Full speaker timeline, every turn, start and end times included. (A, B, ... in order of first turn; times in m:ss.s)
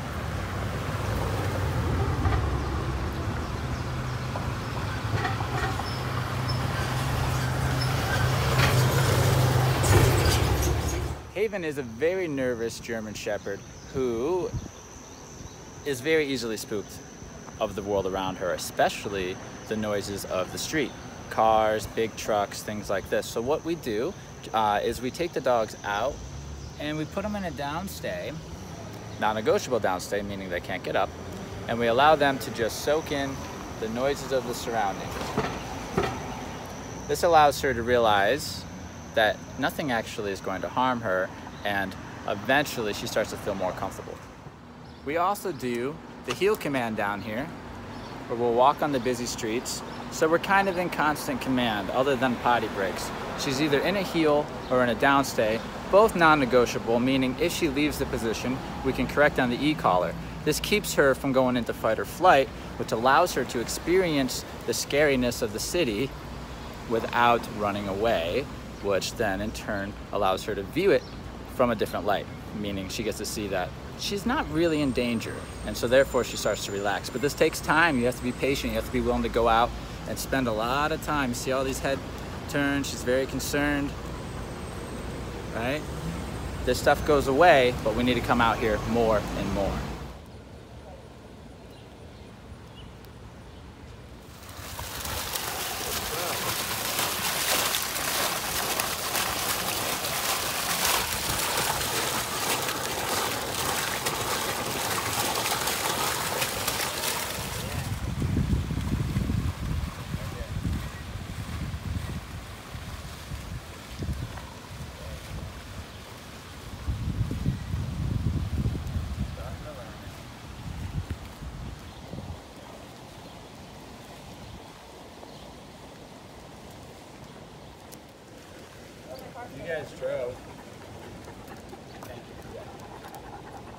0:11.3-0:14.5 A
0:15.8-0:17.0 A
0:17.6-0:26.2 A
0:26.8-0:28.4 A
0:29.2-0:31.2 A
0:31.7-0:35.3 A
0:37.1-0:44.2 A
0:45.0-0:47.5 A
0:48.3-1:06.1 A
1:06.9-1:24.0 A
1:25.5-1:25.9 A
1:26.6-1:29.9 A
1:59.5-2:00.0 A
2:09.2-2:10.4 A
2:12.1-2:12.7 A